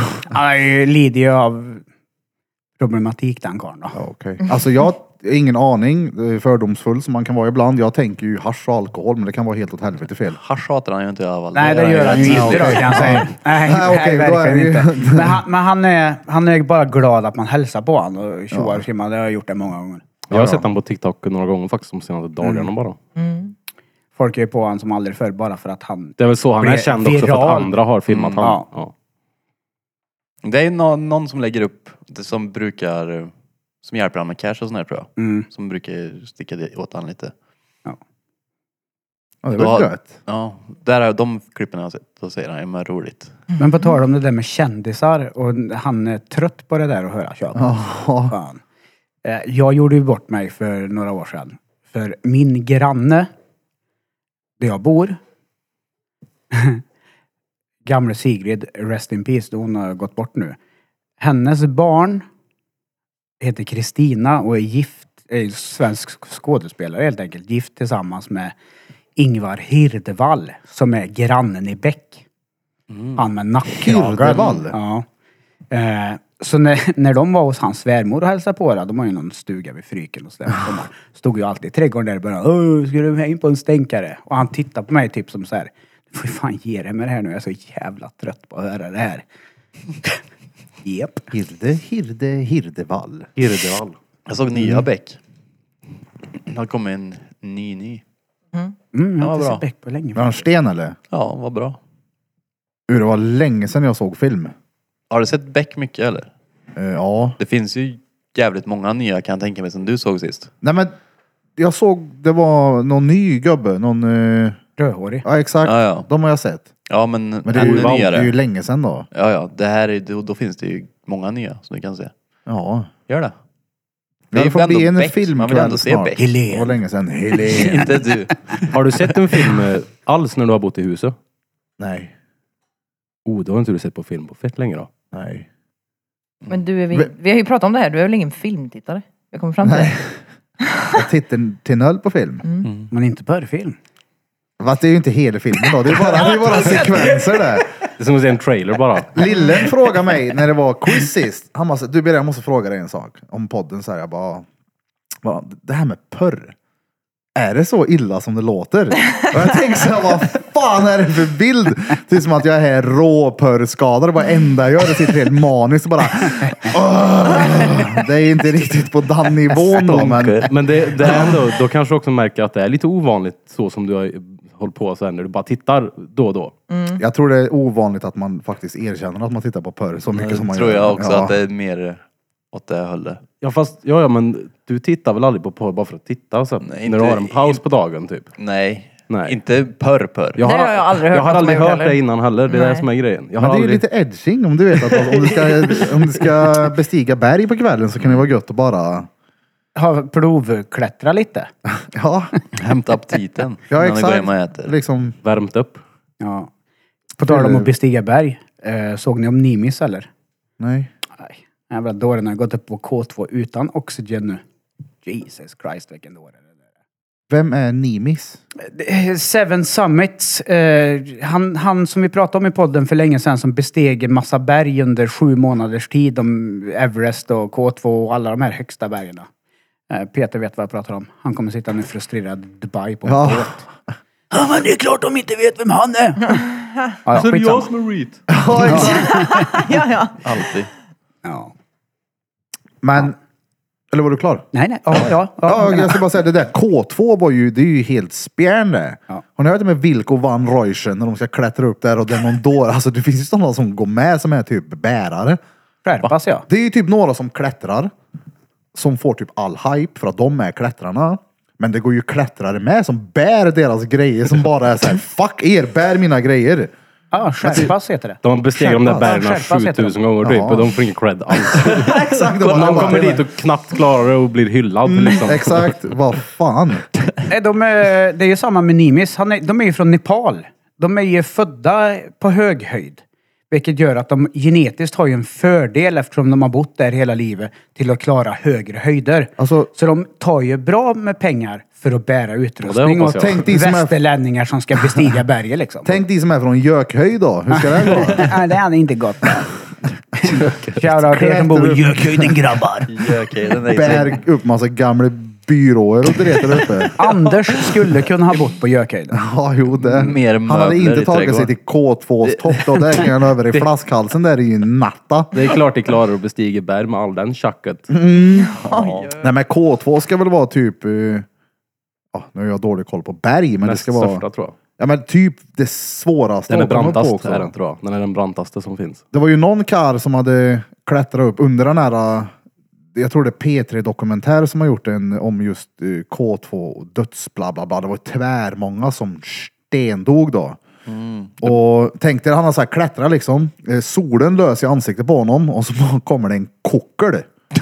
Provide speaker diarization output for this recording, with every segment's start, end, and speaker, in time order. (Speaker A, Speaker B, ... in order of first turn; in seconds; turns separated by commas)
Speaker A: 0.1-1.8, Speaker A: 2.8-4.0, Speaker B: 3.9-10.4, Speaker C: 10.3-13.3, Speaker A: 11.5-20.1, Speaker B: 12.2-15.4, Speaker B: 18.5-18.8, Speaker B: 20.3-20.7, Speaker D: 20.3-23.0, Speaker A: 22.4-22.7, Speaker E: 23.1-23.5, Speaker A: 24.1-27.8, Speaker D: 26.2-28.9, Speaker C: 28.1-28.4, Speaker C: 30.4-33.3, Speaker C: 33.8-37.3, Speaker A: 35.2-35.5, Speaker B: 39.4-40.2, Speaker C: 39.5-43.4, Speaker A: 43.6-48.6, Speaker B: 47.5-48.3, Speaker A: 49.2-53.3, Speaker A: 54.6-55.2, Speaker A: 56.5-56.8, Speaker A: 57.9-60.6, Speaker A: 61.2-62.2, Speaker A: 63.4-68.5, Speaker A: 69.2-72.2, Speaker A: 73.2-75.0, Speaker B: 73.7-74.8, Speaker A: 75.7-89.2, Speaker A: 90.8-91.2, Speaker B: 91.3-93.3, Speaker D: 93.4-94.0, Speaker C: 94.3-95.2, Speaker C: 96.5-98.0, Speaker A: 98.9-100.3, Speaker C: 99.2-99.6, Speaker B: 100.1-101.0, Speaker C: 101.1-101.8, Speaker B: 102.9-104.5, Speaker C: 105.1-106.3, Speaker B: 106.8-107.4, Speaker C: 107.4-110.5, Speaker B: 110.6-110.9, Speaker B: 111.6-114.6, Speaker A: 114.8-115.2, Speaker B: 115.2-116.7, Speaker C: 115.6-116.1, Speaker C: 116.9-118.3, Speaker B: 117.4-119.1, Speaker D: 117.5-118.1, Speaker C: 119.1-122.1, Speaker B: 122.5-122.9, Speaker C: 123.1-123.3, Speaker B: 124.3-127.9, Speaker C: 124.3-126.2, Speaker A: 126.2-126.7, Speaker C: 127.4-129.0, Speaker A: 127.4-127.9, Speaker D: 128.7-131.2, Speaker B: 131.8-132.1, Speaker D: 133.2-134.9, Speaker B: 135.1-135.5, Speaker E: 136.5-140.0, Speaker B: 139.6-140.1, Speaker E: 140.7-140.9, Speaker B: 140.9-142.4, Speaker E: 142.4-142.7, Speaker A: 142.9-143.8, Speaker B: 144.6-147.7, Speaker A: 145.7-147.6, Speaker D: 148.0-149.3, Speaker B: 149.1-154.4, Speaker B: 155.2-156.5, Speaker B: 157.3-170.5, Speaker C: 169.8-171.3, Speaker D: 170.4-176.5, Speaker B: 171.0-171.3, Speaker E: 176.7-177.0, Speaker B: 177.0-181.3, Speaker C: 180.2-182.0, Speaker C: 182.5-183.2, Speaker D: 183.4-188.3, Speaker C: 186.6-187.6, Speaker C: 188.4-190.4, Speaker D: 189.1-189.3, Speaker D: 190.4-193.8, Speaker E: 190.4-192.9, Speaker B: 193.4-199.1, Speaker A: 199.7-201.5, Speaker B: 201.8-202.3, Speaker C: 202.5-204.7, Speaker B: 203.7-205.2, Speaker D: 205.2-205.8, Speaker A: 206.2-206.5, Speaker A: 207.2-210.1, Speaker B: 207.2-207.7, Speaker B: 210.6-210.9, Speaker A: 211.2-214.4, Speaker A: 215.0-216.4, Speaker B: 217.3-218.4, Speaker A: 218.6-229.3, Speaker A: 229.9-233.6, Speaker B: 233.1-233.5, Speaker A: 234.3-236.5, Speaker A: 237.0-237.7, Speaker D: 237.1-238.2, Speaker B: 238.3-239.4, Speaker A: 238.7-239.5, Speaker E: 238.9-240.4, Speaker C: 240.2-240.7, Speaker A: 241.2-241.5, Speaker B: 242.8-243.2, Speaker B: 243.9-255.4, Speaker A: 244.5-246.0, Speaker A: 255.8-256.4, Speaker B: 256.5-257.9, Speaker B: 258.7-266.7, Speaker A: 267.1-270.0, Speaker B: 267.4-267.7, Speaker D: 268.2-275.7, Speaker B: 270.2-270.7, Speaker B: 271.4-273.2, Speaker C: 271.8-273.2, Speaker B: 274.8-276.9, Speaker A: 277.3-296.0, Speaker B: 289.4-289.7, Speaker D: 292.6-293.5, Speaker B: 293.1-294.0, Speaker B: 295.8-298.4, Speaker A: 297.5-299.6, Speaker A: 300.1-302.9, Speaker B: 300.8-302.5, Speaker C: 302.9-304.2, Speaker B: 303.7-306.9, Speaker C: 306.8-307.1, Speaker A: 307.0-309.2, Speaker B: 309.1-315.3, Speaker C: 309.8-311.5, Speaker C: 312.2-313.1, Speaker D: 315.3-317.9, Speaker B: 317.9-318.5, Speaker E: 318.3-319.3, Speaker C: 318.6-319.1, Speaker B: 319.2-321.2, Speaker B: 322.1-324.2, Speaker D: 323.6-324.6, Speaker B: 324.8-327.5, Speaker D: 326.5-329.0, Speaker B: 329.1-332.3, Speaker B: 332.9-340.6, Speaker C: 340.9-341.5, Speaker B: 341.4-347.3